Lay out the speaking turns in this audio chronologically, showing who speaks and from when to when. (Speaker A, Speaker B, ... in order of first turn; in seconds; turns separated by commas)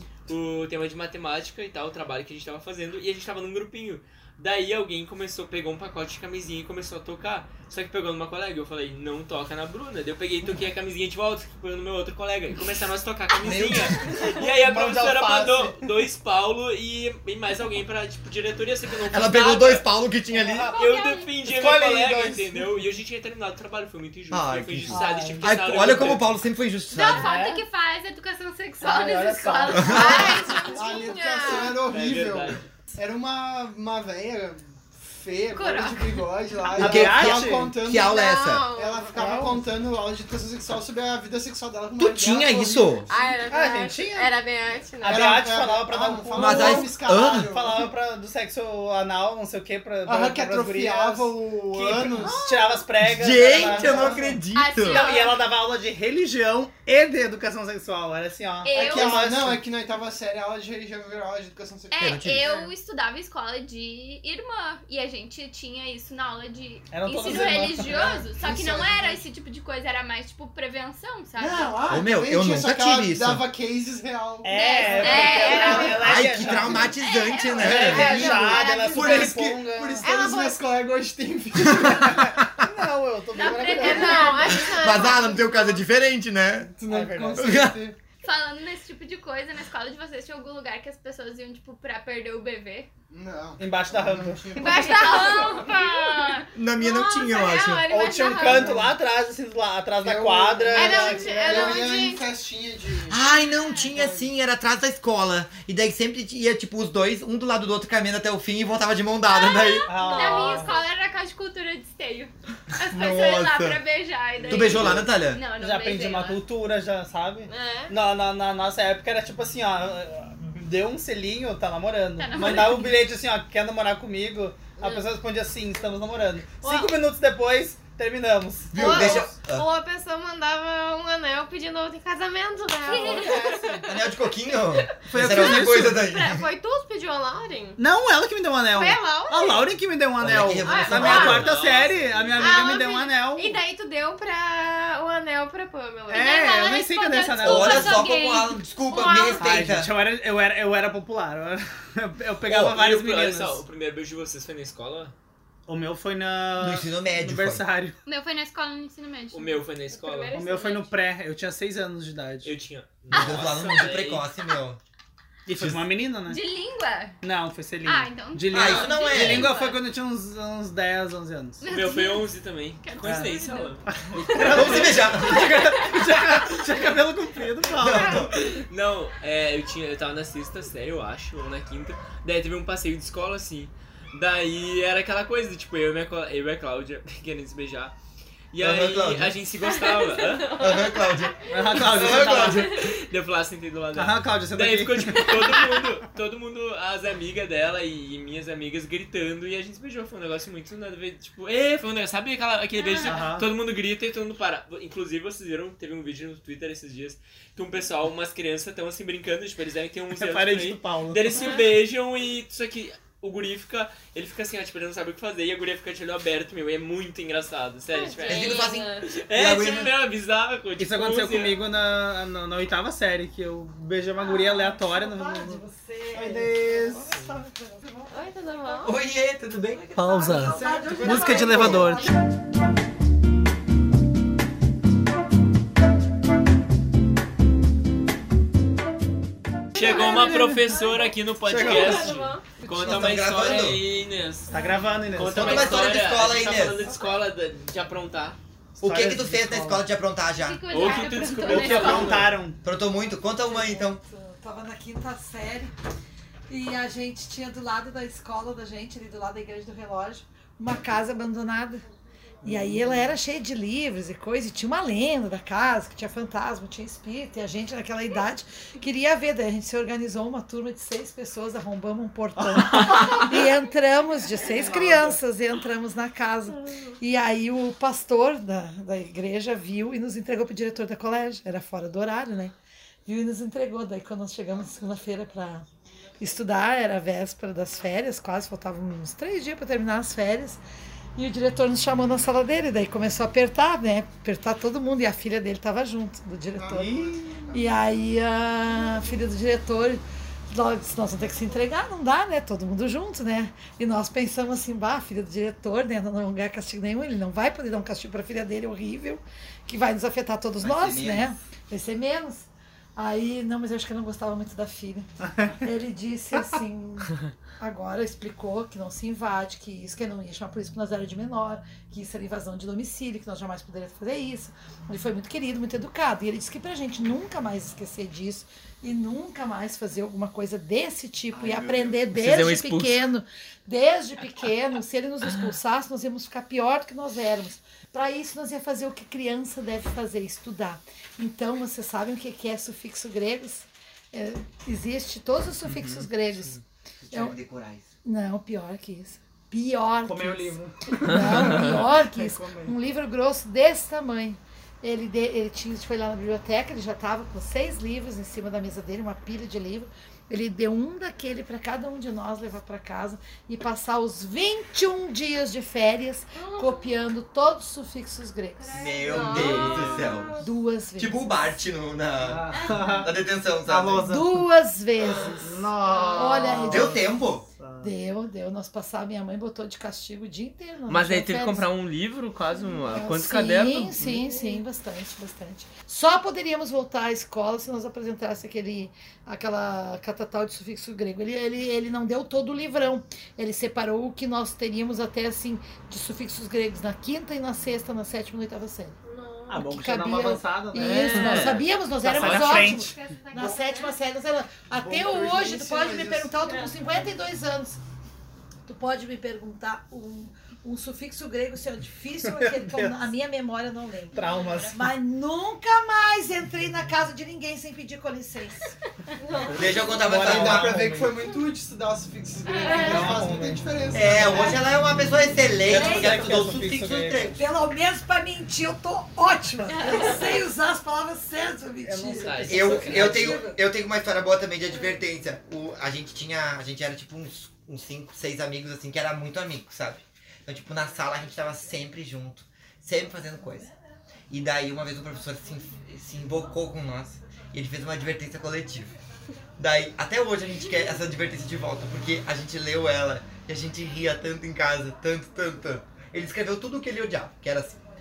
Speaker A: 0.3-19.9, Speaker B: 13.4-14.2, Speaker C: 13.5-15.9, Speaker B: 19.1-20.7, Speaker C: 20.5-20.7, Speaker D: 20.6-21.3, Speaker A: 20.7-26.3, Speaker C: 21.4-22.7, Speaker B: 24.3-27.3, Speaker C: 24.9-25.5, Speaker D: 26.9-31.6, Speaker C: 27.0-27.7, Speaker C: 28.8-30.1, Speaker B: 29.7-30.2, Speaker E: 29.8-31.9, Speaker F: 29.9-38.1, Speaker A: 31.8-32.6, Speaker D: 35.5-36.3, Speaker C: 36.7-37.8, Speaker B: 36.8-38.7, Speaker E: 37.9-39.2, Speaker F: 38.7-43.3, Speaker C: 39.1-39.7, Speaker B: 42.0-43.1, Speaker E: 43.1-45.4, Speaker C: 43.5-44.4, Speaker C: 45.0-59.6, Speaker F: 45.0-47.9, Speaker B: 46.3-47.5, Speaker F: 50.0-52.6, Speaker B: 53.0-55.0, Speaker F: 53.4-54.4, Speaker D: 54.5-55.4, Speaker D: 58.6-59.2, Speaker F: 58.7-62.7, Speaker D: 61.9-72.0, Speaker B: 62.0-62.5, Speaker C: 66.9-68.2, Speaker F: 67.3-69.2, Speaker F: 71.3-76.9, Speaker B: 71.9-73.5, Speaker C: 74.4-77.0, Speaker D: 74.5-76.2, Speaker E: 75.0-75.8, Speaker B: 75.8-79.2, Speaker D: 76.9-77.8, Speaker F: 77.6-82.4, Speaker C: 77.6-80.1, Speaker E: 80.0-80.6, Speaker B: 81.7-82.7, Speaker C: 82.1-84.3, Speaker D: 83.3-84.6, Speaker E: 83.6-85.6, Speaker B: 84.6-86.7, Speaker F: 86.7-88.0, Speaker C: 86.8-87.6, Speaker B: 87.4-87.8, Speaker D: 88.2-92.9, Speaker F: 93.1-95.6, Speaker C: 93.6-95.0, Speaker E: 94.5-98.9, Speaker D: 94.6-96.5, Speaker B: 96.5-97.9, Speaker D: 97.5-98.4, Speaker C: 97.9-101.6, Speaker F: 98.4-98.9, Speaker F: 100.0-103.2, Speaker E: 100.7-102.3, Speaker B: 103.1-109.9, Speaker F: 103.9-104.3, Speaker D: 109.3-116.4, Speaker C: 109.8-110.8, Speaker E: 110.1-110.7, Speaker B: 112.8-113.8, Speaker C: 114.4-129.3, Speaker B: 114.5-115.4, Speaker E: 117.5-118.0, Speaker D: 122.2-123.0, Speaker E: 124.8-125.1, Speaker E: 126.6-127.0, Speaker B: 128.7-129.7, Speaker E: 128.7-133.8, Speaker D: 132.8-133.8, Speaker C: 132.9-133.8, Speaker B: 133.8-136.4, Speaker E: 134.5-137.8, Speaker C: 135.1-136.0, Speaker C: 137.8-143.6, Speaker E: 138.7-139.7, Speaker B: 140.2-141.5, Speaker E: 140.6-141.5, Speaker A: 140.9-142.6, Speaker E: 142.4-146.4, Speaker C: 146.1-148.1, Speaker D: 146.2-149.6, Speaker B: 147.4-149.9, Speaker E: 148.9-149.4, Speaker C: 149.4-153.6, Speaker B: 152.5-152.8, Speaker A: 152.6-155.1, Speaker C: 155.7-158.0, Speaker B: 156.6-157.6, Speaker D: 158.0-159.7, Speaker A: 159.3-160.4, Speaker E: 159.9-160.9, Speaker C: 160.3-162.5, Speaker A: 162.4-164.3, Speaker D: 163.1-163.6, Speaker B: 163.1-164.8, Speaker C: 165.4-166.4, Speaker B: 165.6-165.8, Speaker D: 166.2-167.2, Speaker C: 167.2-171.7, Speaker D: 167.8-169.8, Speaker B: 168.5-169.5, Speaker D: 171.6-176.7, Speaker A: 171.7-175.4, Speaker C: 173.0-178.3, Speaker B: 174.4-175.8, Speaker B: 177.7-178.3, Speaker A: 178.0-187.9, Speaker A: 188.5-190.7, Speaker B: 188.6-189.4, Speaker B: 190.5-192.9, Speaker C: 191.5-192.7, Speaker A: 191.8-221.6, Speaker C: 193.9-195.8, Speaker D: 202.8-203.3, Speaker C: 203.0-203.5, Speaker C: 210.1-211.4, Speaker E: 211.3-211.6, Speaker E: 217.9-219.1, Speaker B: 218.2-219.9, Speaker C: 220.8-227.2, Speaker G: 224.2-228.8, Speaker E: 228.1-229.0, Speaker B: 228.8-231.9, Speaker C: 229.9-232.1, Speaker G: 229.9-232.1, Speaker F: 231.0-231.3, Speaker A: 239.7-244.6, Speaker C: 239.8-240.8, Speaker E: 239.8-242.5, Speaker C: 241.5-242.2, Speaker C: 242.7-243.3, Speaker B: 242.7-243.8, Speaker C: 244.5-245.9, Speaker A: 245.1-248.4, Speaker B: 245.3-246.8, Speaker C: 248.8-249.8, Speaker B: 248.8-250.8, Speaker D: 250.4-252.2, Speaker A: 250.7-252.4, Speaker C: 251.4-252.6, Speaker B: 251.6-254.0, Speaker G: 252.8-255.7, Speaker G: 256.5-261.8, Speaker C: 262.4-263.2, Speaker G: 262.4-282.5, Speaker C: 272.4-273.4, Speaker C: 274.4-275.2, Speaker G: 283.1-285.7, Speaker F: 286.0-286.3, Speaker G: 286.2-290.6, Speaker G: 291.1-297.0, Speaker F: 296.6-297.7, Speaker C: 296.7-297.4, Speaker G: 297.5-346.6, Speaker B: 310.6-311.3, Speaker B: 331.3-332.0, Speaker A: 332.1-333.0, Speaker A: 345.7-346.6, Speaker B: 347.0-347.9, Speaker G: 347.1-347.4, Speaker G: 348.0-369.4, Speaker C: 350.0-352.8, Speaker A: 351.0-351.8, Speaker E: 366.4-366.9, Speaker E: 368.6-370.5, Speaker B: 368.7-370.4, Speaker A: 369.2-370.2, Speaker G: 370.4-371.6, Speaker B: 370.9-374.1, Speaker C: 372.2-374.5, Speaker G: 374.0-375.6, Speaker C: 375.2-377.0, Speaker E: 375.9-376.4, Speaker G: 376.1-377.1, Speaker B: 376.7-377.4, Speaker C: 377.6-377.9, Speaker G: 377.8-381.7, Speaker A: 380.9-384.1, Speaker G: 382.9-398.9, Speaker C: 384.0-384.4, Speaker E: 399.0-399.6, Speaker C: 399.5-402.9, Speaker G: 399.5-407.8, Speaker A: 400.8-401.6, Speaker A: 402.2-402.6, Speaker E: 402.6-403.9, Speaker F: 404.8-406.3, Speaker E: 406.4-406.7, Speaker G: 408.6-418.8, Speaker C: 412.2-413.1, Speaker C: 414.1-414.8, Speaker D: 414.1-414.7, Speaker E: 419.2-420.0, Speaker C: 419.5-421.2, Speaker B: 419.5-420.8, Speaker F: 420.2-424.6, Speaker D: 422.5-423.0, Speaker E: 422.5-423.0, Speaker C: 422.7-424.4, Speaker B: 423.9-427.4, Speaker C: 425.6-427.3, Speaker G: 425.7-426.5, Speaker G: 427.3-433.6, Speaker D: 429.7-430.2, Speaker C: 431.8-433.4, Speaker A: 432.1-433.1, Speaker B: 432.5-443.7, Speaker B: 444.3-448.9, Speaker B: 449.6-457.8